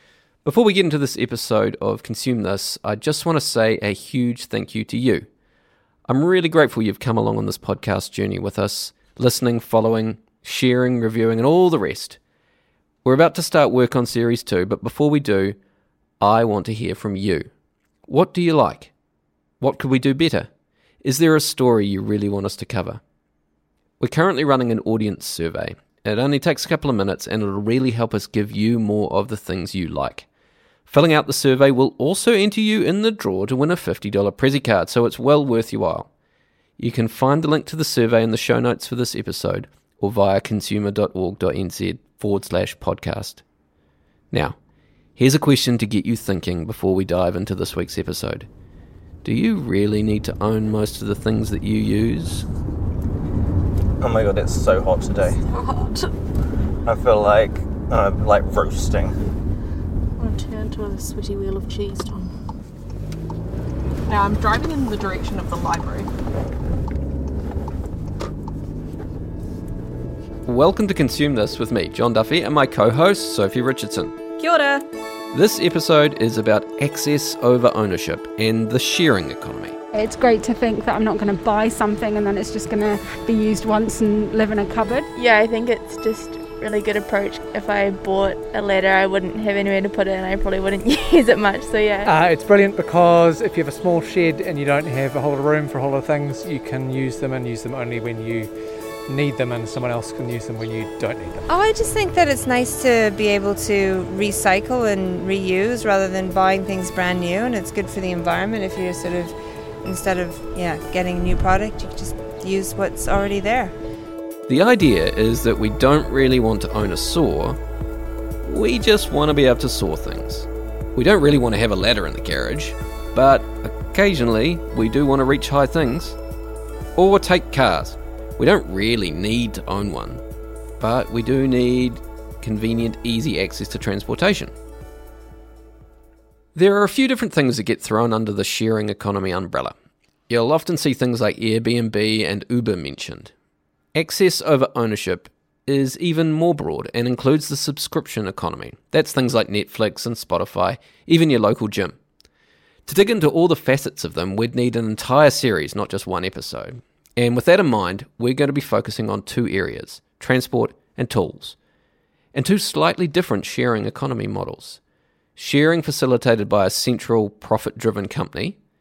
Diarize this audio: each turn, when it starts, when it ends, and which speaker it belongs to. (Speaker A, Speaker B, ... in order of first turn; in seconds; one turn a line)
Speaker A: 0.4-5.3
Speaker A: 6.1-12.2
Speaker A: 13.0-15.6
Speaker A: 16.2-17.5
Speaker A: 18.1-18.9
Speaker A: 19.6-20.5
Speaker A: 21.0-23.0
Speaker A: 24.0-30.3
Speaker A: 30.9-36.1
Speaker A: 36.8-43.4
Speaker A: 44.3-44.6
Speaker A: 45.1-48.5
Speaker A: 49.2-52.4
Speaker B: 54.0-55.4
Speaker C: 55.5-56.1
Speaker B: 56.8-59.2
Speaker C: 60.2-62.3
Speaker C: 64.0-66.1
Speaker A: 70.5-74.2
Speaker C: 74.4-74.8
Speaker A: 75.3-79.8
Speaker D: 79.9-85.1
Speaker E: 85.1-92.1
Speaker F: 92.0-98.5
Speaker F: 99.1-101.4
Speaker G: 101.5-113.7
Speaker A: 114.5-117.6
Speaker A: 118.4-126.2
Speaker A: 127.0-130.2
Speaker A: 130.8-134.5
Speaker A: 136.5-139.7
Speaker A: 140.3-143.3
Speaker A: 143.9-152.0
Speaker A: 152.8-161.6
Speaker A: 162.3-164.8
Speaker A: 165.3-168.6